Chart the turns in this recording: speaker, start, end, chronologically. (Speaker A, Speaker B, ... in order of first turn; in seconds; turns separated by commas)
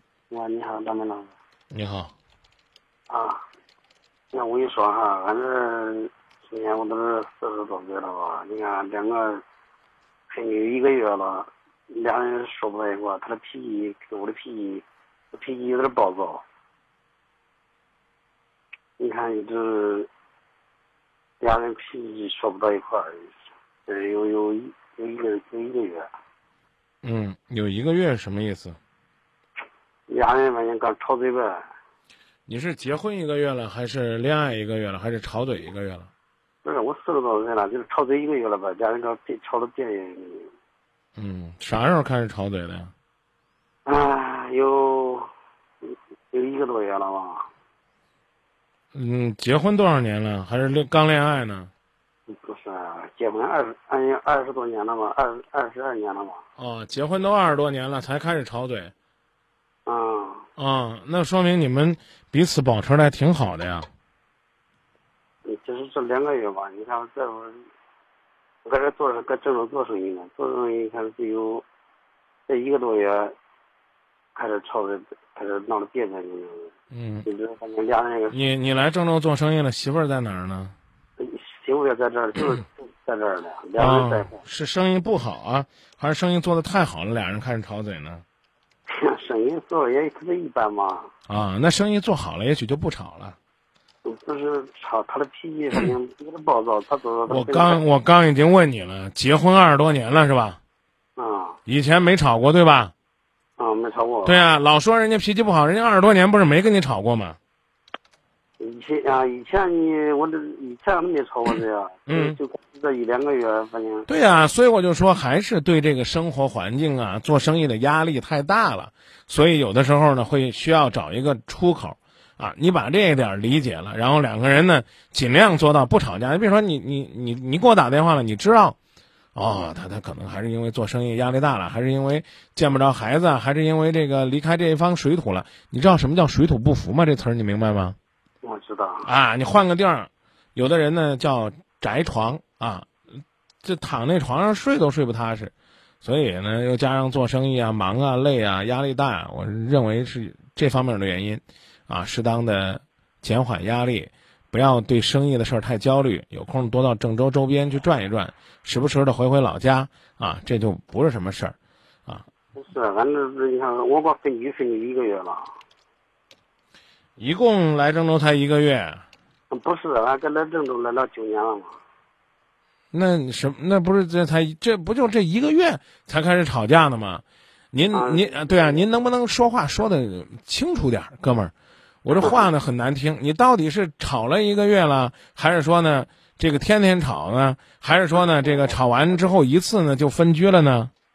Speaker A: 0.3-1.3, Speaker B: 1.7-2.1, Speaker A: 3.1-3.4, Speaker A: 4.3-9.4, Speaker A: 10.3-16.4, Speaker A: 19.0-20.1, Speaker A: 21.4-23.3, Speaker A: 23.9-26.1, Speaker B: 27.0-28.8, Speaker A: 30.1-31.6, Speaker B: 32.5-36.1, Speaker A: 36.6-40.5, Speaker B: 41.2-42.9, Speaker A: 43.9-45.3, Speaker A: 45.8-47.5, Speaker B: 48.9-51.7, Speaker A: 52.3-56.4, Speaker B: 56.6-58.9, Speaker A: 59.9-60.5, Speaker B: 60.6-63.9, Speaker A: 65.4-67.7, Speaker A: 68.6-71.6, Speaker A: 72.5-73.3, Speaker A: 74.3-76.7, Speaker B: 76.9-77.2, Speaker A: 77.2-78.4, Speaker B: 78.3-80.7, Speaker A: 81.2-84.4, Speaker B: 83.8-88.2, Speaker A: 88.9-91.1, Speaker B: 91.3-93.3, Speaker A: 94.0-97.8, Speaker B: 97.3-100.6, Speaker A: 101.2-101.6, Speaker B: 101.7-102.9, Speaker A: 103.6-104.4, Speaker B: 104.2-107.4, Speaker A: 108.6-114.1, Speaker B: 112.1-112.4, Speaker B: 114.1-128.8, Speaker B: 129.3-138.0, Speaker A: 138.4-139.1, Speaker B: 139.0-142.9, Speaker B: 143.6-161.6, Speaker A: 162.5-165.5, Speaker B: 167.2-169.0, Speaker A: 169.5-171.8, Speaker B: 172.9-181.5, Speaker A: 177.9-178.9, Speaker B: 182.0-190.9, Speaker A: 182.2-182.5, Speaker A: 188.2-188.8